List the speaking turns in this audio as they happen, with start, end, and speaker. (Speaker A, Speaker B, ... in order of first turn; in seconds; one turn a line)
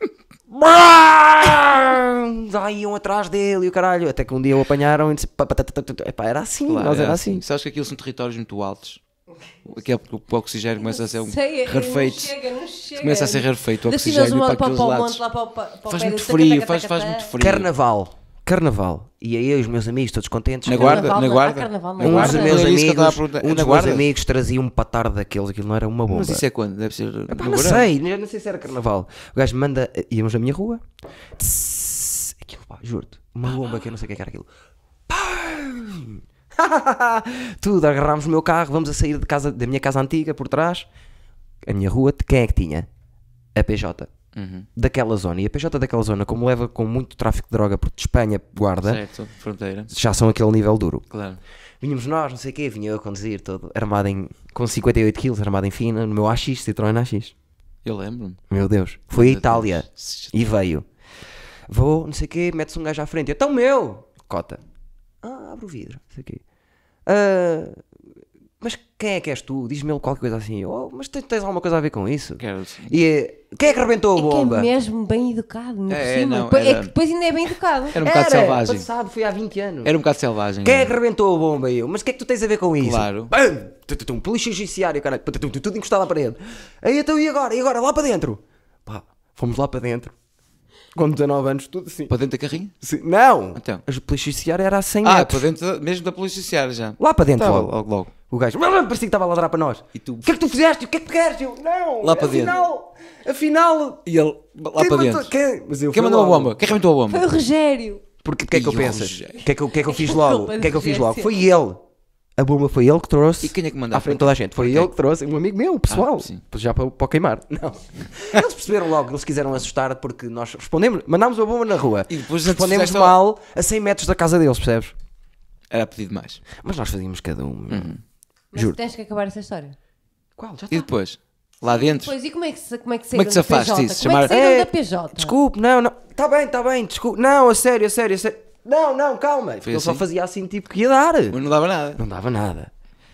Speaker A: 0.5-7.4
Speaker B: 6.7-9.0
Speaker B: 9.7-12.3
Speaker C: 10.8-17.3
Speaker B: 13.0-15.2
Speaker B: 15.9-17.7
Speaker A: 17.4-21.2
Speaker B: 20.6-24.1
Speaker C: 20.7-22.6
Speaker A: 22.0-26.4
Speaker B: 26.1-27.9
Speaker A: 27.3-30.8
Speaker A: 31.4-34.5
Speaker A: 35.1-40.9
Speaker A: 41.6-42.9
Speaker A: 43.5-44.1
Speaker B: 44.4-44.7
Speaker A: 44.8-49.0
Speaker B: 48.8-49.9
Speaker A: 49.9-51.1
Speaker B: 51.1-51.4
Speaker A: 51.8-57.3
Speaker B: 57.8-58.4
Speaker A: 58.5-60.9
Speaker B: 59.1-60.3
Speaker A: 61.7-64.6
Speaker A: 65.2-66.4
Speaker A: 67.1-67.8
Speaker A: 68.6-74.7
Speaker B: 72.4-72.9
Speaker C: 74.1-78.0
Speaker B: 75.9-76.9
Speaker B: 77.9-78.9
Speaker A: 78.0-79.9
Speaker B: 79.8-80.9
Speaker A: 80.6-90.1
Speaker B: 82.8-83.3
Speaker A: 91.0-92.1
Speaker B: 92.1-92.7
Speaker A: 92.8-95.5
Speaker B: 93.6-93.8
Speaker B: 95.0-98.1
Speaker A: 97.0-97.7
Speaker A: 98.3-104.0
Speaker B: 100.0-100.3
Speaker B: 102.0-102.6
Speaker B: 104.1-105.3
Speaker A: 104.8-106.6
Speaker B: 105.9-107.3
Speaker C: 107.1-108.0
Speaker A: 108.2-111.8
Speaker B: 108.5-109.4
Speaker C: 109.8-111.4
Speaker A: 112.4-124.9
Speaker B: 113.4-114.9
Speaker B: 115.9-116.4
Speaker B: 122.1-123.2
Speaker B: 125.7-126.4
Speaker A: 126.6-127.9
Speaker B: 127.7-128.0
Speaker C: 128.5-129.8
Speaker A: 130.4-130.8
Speaker B: 130.7-132.1
Speaker C: 131.7-135.4
Speaker B: 133.1-134.3
Speaker A: 134.2-141.4
Speaker B: 139.7-140.0
Speaker B: 141.3-142.0
Speaker A: 142.0-142.7